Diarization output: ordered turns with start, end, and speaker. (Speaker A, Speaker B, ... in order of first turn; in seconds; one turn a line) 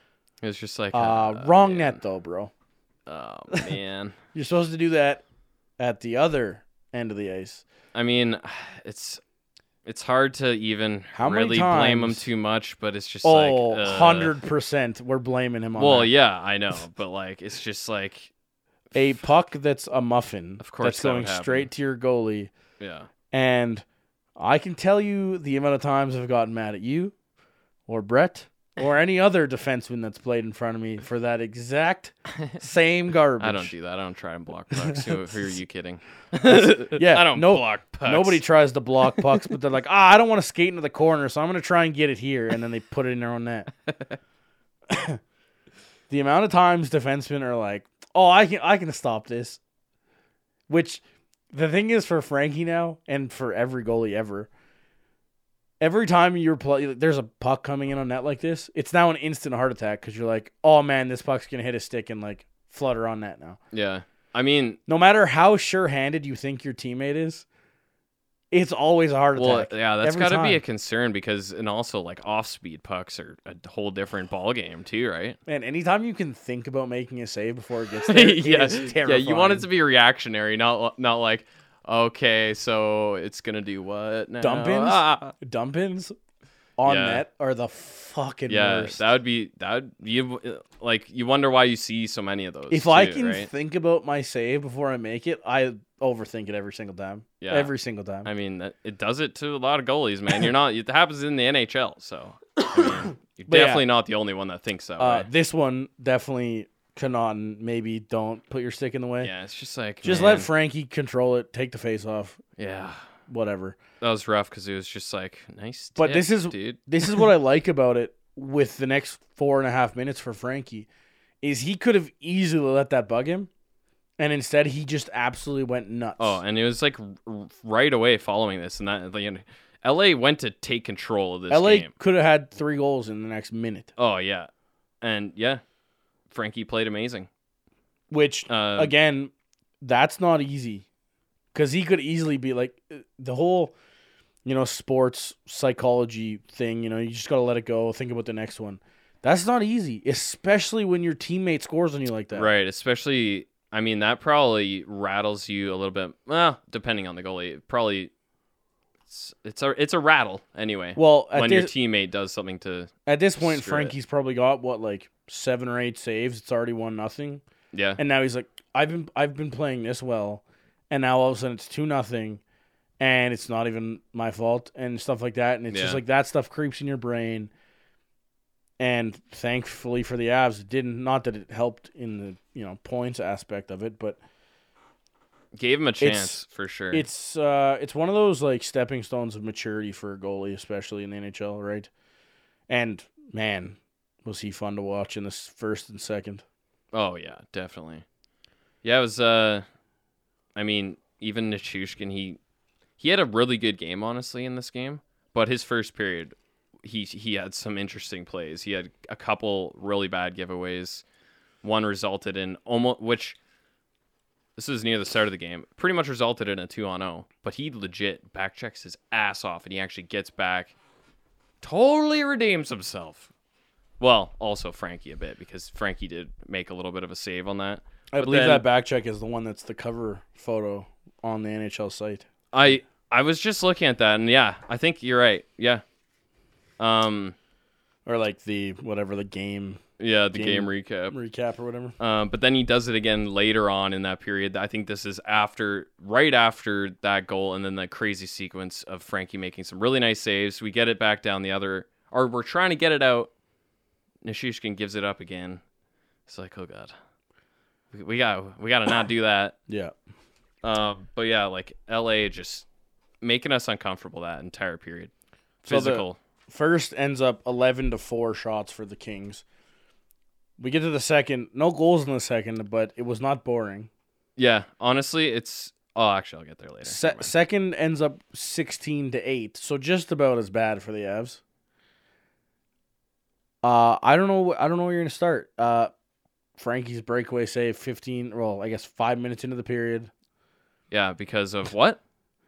Speaker A: 0.4-2.0
Speaker B: 0.9-2.5
Speaker A: 3.1-4.2
Speaker B: 4.3-5.2
Speaker B: 5.8-7.6
Speaker A: 7.9-9.2
Speaker A: 9.8-14.3
Speaker B: 11.1-12.3
Speaker B: 13.2-16.1
Speaker A: 15.8-18.3
Speaker B: 18.9-22.5
Speaker A: 20.6-21.7
Speaker A: 22.8-23.1
Speaker B: 23.3-23.8
Speaker B: 24.4-27.1
Speaker B: 27.9-33.7
Speaker A: 33.4-38.4
Speaker B: 34.8-35.1
Speaker B: 36.4-43.7
Speaker A: 43.9-44.1
Speaker B: 44.9-45.2
Speaker B: 46.1-49.6
Speaker B: 50.7-54.5
Speaker B: 55.8-63.6
Speaker A: 63.7-64.8
Speaker B: 64.9-67.5
Speaker B: 68.5-70.6
Speaker A: 69.3-75.4
Speaker B: 75.5-79.7
Speaker A: 78.1-85.3
Speaker B: 84.4-86.1
Speaker B: 86.8-89.0
Speaker A: 86.8-87.2
Speaker A: 88.5-93.5
Speaker B: 92.7-98.3
Speaker A: 97.4-97.7
Speaker A: 98.2-105.3
Speaker B: 102.6-103.8
Speaker B: 105.0-109.3
Speaker A: 109.2-110.5
Speaker B: 110.0-112.4
Speaker A: 112.6-113.0
Speaker B: 113.3-113.8
Speaker A: 114.0-117.2
Speaker B: 116.0-120.9
Speaker B: 121.4-123.5
Speaker B: 124.2-126.4
Speaker A: 126.2-131.9
Speaker B: 131.5-133.9
Speaker A: 134.0-134.5
Speaker A: 135.0-135.6
Speaker A: 136.3-137.3
Speaker B: 138.1-140.8
Speaker A: 138.5-138.9
Speaker B: 141.5-143.7
Speaker B: 144.4-152.5
Speaker A: 152.3-158.1
Speaker A: 159.1-163.9
Speaker B: 160.9-161.7
Speaker B: 163.1-167.4
Speaker A: 167.7-168.0
Speaker B: 168.0-172.4
Speaker B: 173.0-177.5
Speaker A: 175.7-176.0
Speaker B: 178.8-184.2
Speaker A: 185.5-187.1
Speaker B: 186.0-191.9
Speaker B: 192.7-196.4
Speaker A: 196.9-198.0
Speaker A: 198.8-199.6
Speaker A: 200.5-202.4
Speaker A: 203.0-211.0
Speaker A: 211.6-213.4
Speaker A: 214.6-220.7
Speaker A: 221.6-223.3
Speaker A: 224.0-228.6
Speaker B: 228.1-232.3
Speaker A: 232.5-235.8
Speaker A: 236.8-237.3
Speaker B: 238.1-239.8
Speaker A: 240.0-241.2
Speaker B: 240.3-241.9
Speaker A: 242.0-253.3
Speaker A: 254.2-255.6
Speaker A: 256.3-256.9
Speaker A: 257.9-259.6
Speaker B: 259.7-259.9
Speaker A: 260.6-262.6
Speaker A: 263.2-265.1
Speaker A: 265.6-266.2
Speaker B: 265.6-269.4
Speaker B: 270.6-273.9
Speaker A: 274.4-277.3
Speaker B: 276.8-281.4
Speaker B: 283.6-285.9
Speaker B: 286.6-290.1
Speaker A: 290.9-292.0